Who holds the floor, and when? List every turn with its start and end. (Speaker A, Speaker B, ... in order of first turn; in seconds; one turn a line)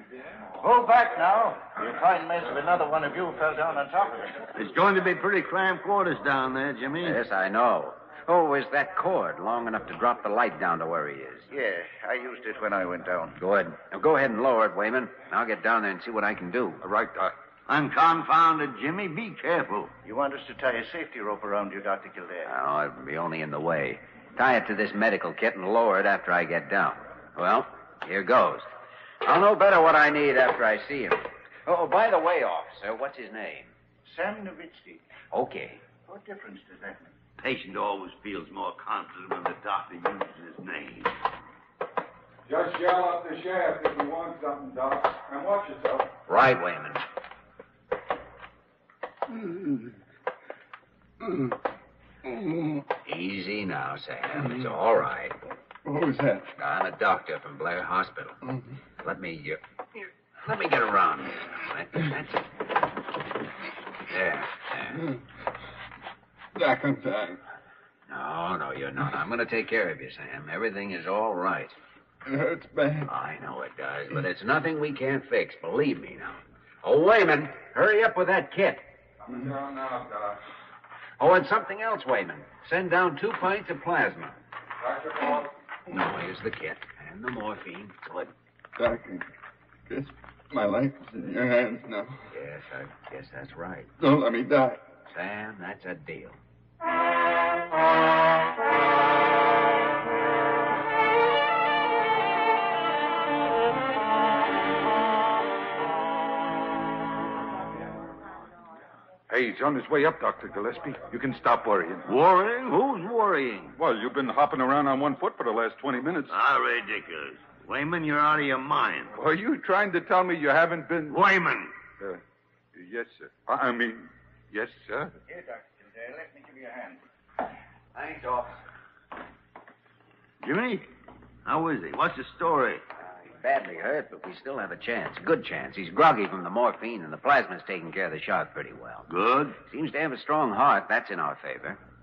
Speaker A: 0.6-4.5
Speaker B: 4.5-7.2
Speaker C: 7.0-11.5
Speaker A: 11.5-13.4
Speaker C: 13.4-16.8
Speaker D: 16.8-17.4
Speaker B: 17.7-19.9
Speaker A: 20.1-22.5
Speaker C: 22.4-28.7
Speaker C: 29.2-33.7
Speaker A: 34.0-35.0
Speaker C: 35.3-35.8
Speaker A: 36.0-37.1
Speaker B: 37.4-41.1
Speaker D: 42.5-46.1
Speaker C: 46.3-47.0
Speaker E: 49.3-49.9
Speaker E: 51.2-51.5
Speaker E: 52.3-52.8
Speaker C: 53.0-55.4
Speaker E: 55.8-56.5
Speaker C: 56.6-58.4
Speaker C: 59.0-62.6
Speaker C: 64.0-65.1
Speaker E: 66.5-67.4
Speaker C: 68.1-71.8
Speaker E: 72.2-73.1
Speaker C: 73.1-78.9
Speaker D: 79.3-80.4
Speaker C: 81.2-84.4
Speaker D: 84.8-85.5
Speaker C: 85.9-88.3
Speaker E: 88.8-89.3
Speaker E: 89.9-92.3
Speaker C: 92.3-93.9
Speaker E: 94.0-94.9
Speaker C: 95.1-96.4
Speaker D: 109.3-112.1
Speaker B: 112.1-113.8
Speaker D: 113.8-116.3
Speaker B: 116.3-119.1
Speaker D: 119.1-121.2
Speaker B: 121.1-121.7
Speaker D: 122.8-125.1
Speaker A: 125.3-127.0
Speaker C: 128.0-128.6
Speaker B: 130.4-130.9
Speaker B: 131.5-132.8
Speaker C: 133.0-139.1
Speaker B: 139.1-139.6
Speaker C: 139.6-141.8